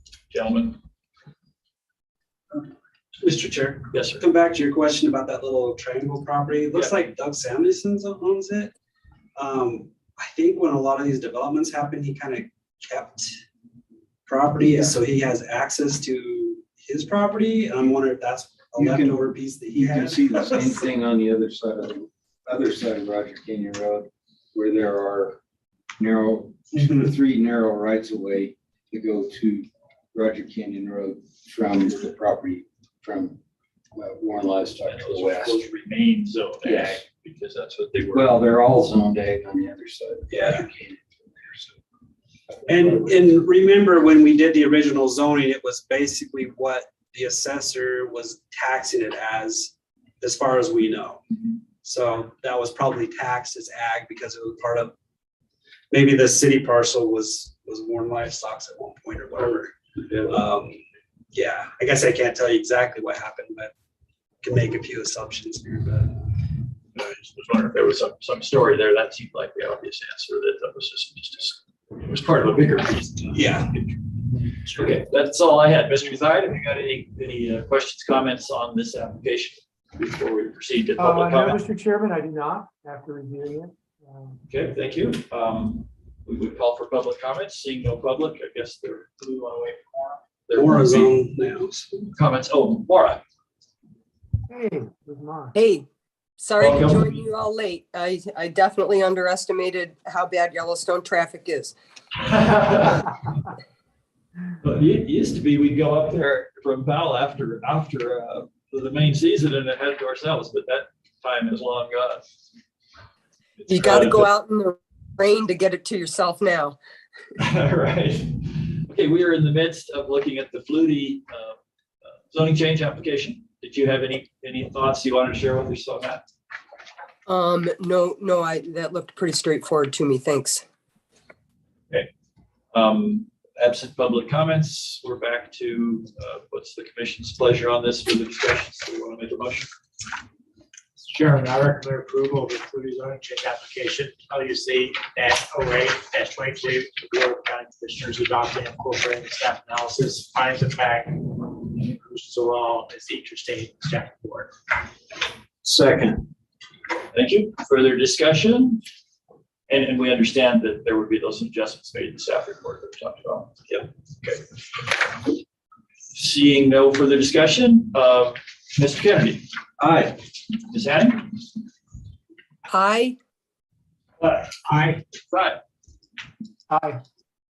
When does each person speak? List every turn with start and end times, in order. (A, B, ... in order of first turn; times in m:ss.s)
0:00.3-0:00.8 A
0:03.2-0:08.7 B
0:03.9-0:04.2 A
0:06.7-0:07.1 A
0:09.4-0:13.4 B
0:14.3-0:20.8 B
0:18.8-0:25.4 C
0:26.0-0:33.4 C
0:34.0-0:35.6 C
0:34.9-0:38.3 A
0:36.6-0:37.0 C
0:38.1-0:41.8 C
0:40.3-0:40.6 B
0:42.7-0:51.2 B
0:51.8-0:54.9 B
0:55.9-0:59.7 B
1:00.3-1:00.8 B
1:01.3-1:03.7 B
1:04.4-1:06.2 B
1:07.0-1:14.0 A
1:13.3-1:13.7 B
1:14.6-1:21.6 A
1:21.0-1:24.4 D
1:24.5-1:31.2 A
1:30.5-1:31.9 B
1:32.1-1:33.2 A
1:34.5-1:35.5 D
1:35.5-1:35.9 E
1:36.4-1:41.8 E
1:36.6-1:37.2 A
1:42.2-1:43.1 A
1:44.6-1:52.2 A
1:53.6-1:54.3 A
1:53.7-1:56.8 E
1:57.4-2:01.6 A
2:02.3-2:06.2 A
2:07.3-2:10.6 E
2:12.7-2:19.7 A
2:21.2-2:31.1 F
2:31.8-2:34.5 F
2:35.6-2:36.2 C
2:37.1-2:38.8 A
2:39.7-2:43.5 A
2:46.1-2:49.4 A
2:49.8-2:50.1 C
2:50.7-2:51.3 A
2:52.7-2:53.2 E
2:55.3-2:55.6 A